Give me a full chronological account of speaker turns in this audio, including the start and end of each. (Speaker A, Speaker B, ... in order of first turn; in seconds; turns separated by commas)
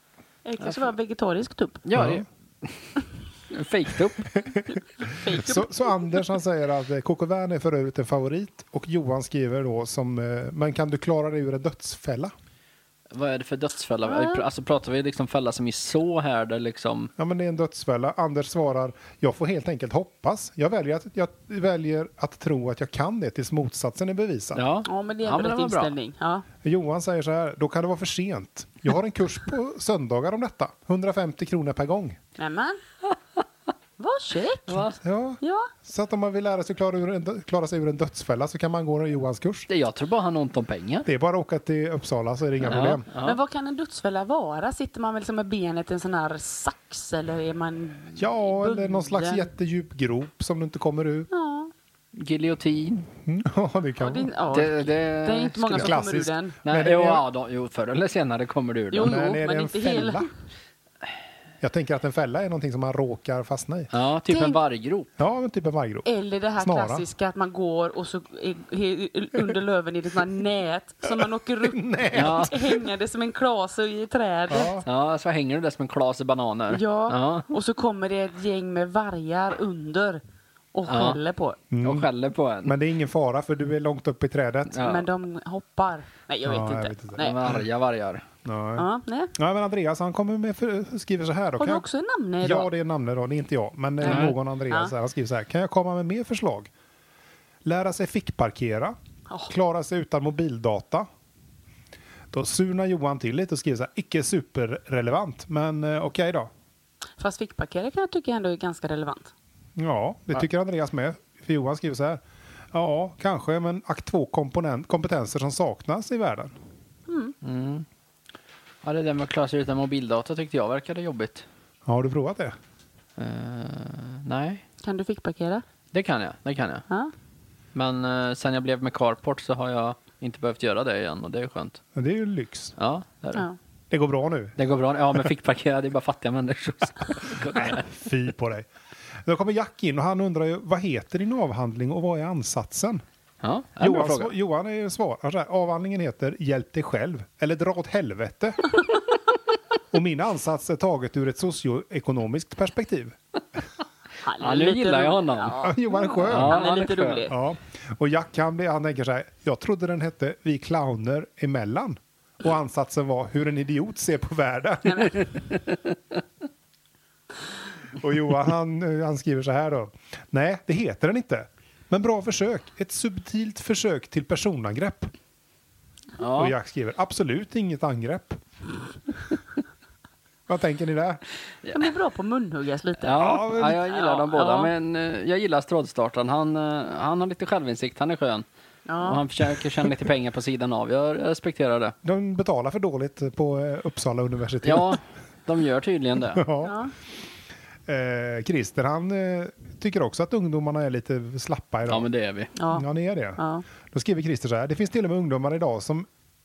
Speaker A: 0.4-1.8, Speaker B: 1.9-4.3, Speaker C: 1.9-2.2, Speaker C: 4.3-12.3, Speaker A: 4.7-6.2, Speaker B: 13.1-17.1, Speaker A: 14.0-14.4, Speaker C: 17.2-24.6, Speaker B: 24.5-25.9, Speaker A: 24.9-26.4, Speaker C: 26.6-32.2, Speaker A: 32.4-32.8, Speaker A: 34.0-34.9, Speaker B: 34.7-35.0, Speaker C: 35.0-39.7, Speaker A: 35.4-35.7, Speaker B: 39.7-41.0, Speaker C: 41.0-43.0, Speaker B: 42.6-43.4, Speaker A: 43.1-49.5, Speaker C: 48.2-51.3, Speaker A: 51.3-51.7, Speaker B: 52.1-53.1, Speaker C: 53.2-54.3, Speaker A: 54.0-56.6, Speaker B: 54.5-55.9, Speaker C: 55.7-57.2, Speaker B: 56.6-59.2, Speaker A: 58.9-60.3, Speaker C: 59.0-60.3, Speaker C: 61.6-63.9, Speaker B: 63.9-65.1, Speaker A: 64.3-64.6, Speaker C: 65.2-66.0, Speaker A: 66.0-74.8, Speaker C: 66.6-67.0, Speaker C: 71.0-72.8, Speaker B: 72.1-72.5, Speaker C: 74.5-74.9, Speaker B: 74.8-77.5, Speaker A: 76.7-80.2, Speaker A: 80.7-81.6, Speaker B: 80.9-81.2, Speaker C: 81.7-82.1, Speaker B: 81.8-82.8, Speaker C: 82.6-84.8, Speaker B: 84.7-85.1, Speaker A: 84.8-87.4, Speaker C: 86.4-87.6, Speaker B: 87.2-88.2, Speaker C: 88.4-91.9, Speaker A: 88.8-89.3, Speaker A: 91.6-92.7, Speaker C: 92.4-96.7, Speaker A: 94.0-94.9, Speaker B: 94.0-94.3, Speaker C: 97.6-98.9, Speaker C: 99.5-101.1, Speaker C: 102.3-106.5, Speaker A: 107.2-109.3, Speaker C: 109.8-116.5, Speaker A: 117.1-117.3, Speaker B: 117.4-117.9, Speaker B: 118.8-121.5, Speaker C: 121.8-122.5, Speaker B: 123.2-124.6, Speaker A: 124.8-125.6, Speaker B: 125.9-126.9, Speaker B: 127.7-131.8, Speaker C: 131.9-132.8, Speaker B: 132.8-133.5, Speaker C: 133.9-134.5, Speaker B: 134.6-137.9, Speaker C: 137.5-138.7, Speaker C: 139.2-143.0, Speaker B: 143.4-144.3, Speaker C: 143.8-148.7, Speaker C: 149.9-153.2, Speaker A: 154.2-157.4, Speaker B: 154.4-155.7, Speaker C: 155.6-156.6, Speaker B: 156.2-157.2, Speaker C: 157.3-165.2, Speaker A: 164.8-165.2, Speaker B: 165.2-166.2, Speaker C: 168.0-175.1, Speaker B: 176.2-176.5, Speaker C: 176.3-178.4, Speaker C: 180.5-181.2, Speaker A: 181.7-184.7, Speaker B: 183.0-188.5, Speaker C: 183.2-183.8, Speaker A: 188.9-189.2, Speaker B: 189.0-191.9, Speaker C: 192.0-195.0, Speaker B: 194.6-196.5, Speaker C: 196.3-196.8, Speaker A: 196.6-196.9, Speaker C: 197.8-202.1, Speaker B: 201.9-202.5, Speaker A: 202.6-202.8, Speaker C: 202.7-206.1, Speaker A: 203.4-203.7